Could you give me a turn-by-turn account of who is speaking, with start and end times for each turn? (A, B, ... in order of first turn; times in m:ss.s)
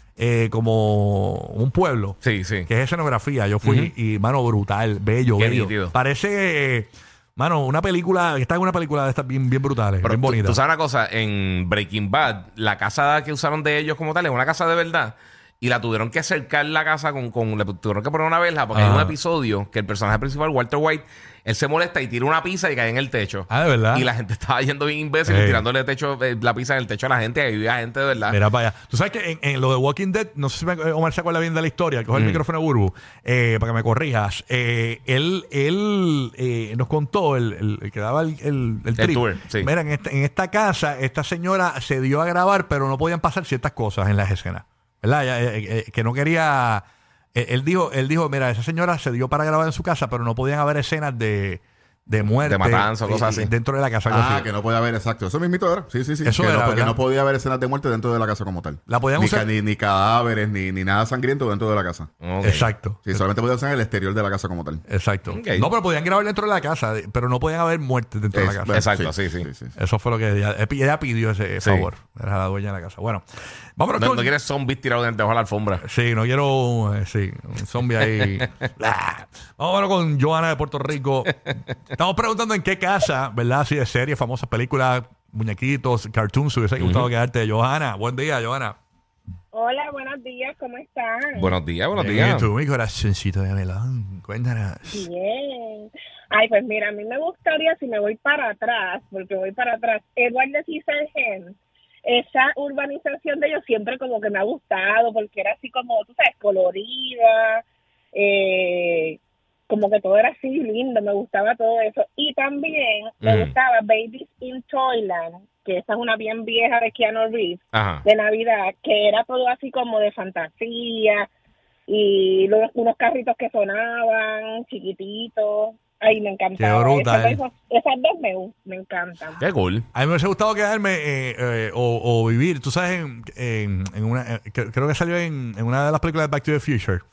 0:00.2-0:02.2 A
0:02.2-0:02.7 B
0:02.7-0:10.6 A
0:03.6-0:03.9 B
0:05.4-0:05.9 B
0:10.0-0:28.4 B
0:18.7-0:19.2 A
0:23.5-0:24.0 A
0:25.2-0:25.6 A
0:28.3-0:46.8 A
0:32.1-0:32.4 B
0:39.0-0:39.7 B
0:47.3-0:54.5 A
0:52.4-0:53.5 B
0:54.1-1:02.1 C
0:56.2-0:57.0 A
0:58.9-0:59.5 A
1:02.2-1:02.7 B
1:02.4-1:03.2 A
1:03.0-1:04.8 C
1:04.9-1:08.8 A
1:05.3-1:05.7 B
1:08.3-1:09.7 C
1:08.7-1:09.5 B
1:09.8-1:13.2 A
1:11.6-1:11.9 B
1:13.8-1:14.3 A
1:14.0-1:15.8 B
1:15.8-1:21.3 A
1:21.9-1:28.8 A
1:26.8-1:27.1 B
1:29.5-1:31.6 D
1:31.4-1:32.5 B
1:31.9-1:35.1 A
1:34.9-1:47.6 D
1:48.1-2:01.3 D
1:53.2-1:53.5 B
1:57.7-1:58.0 B
2:01.9-2:09.4 D
2:06.6-2:07.4 A
2:09.4-2:09.8 B
2:09.9-2:17.0 A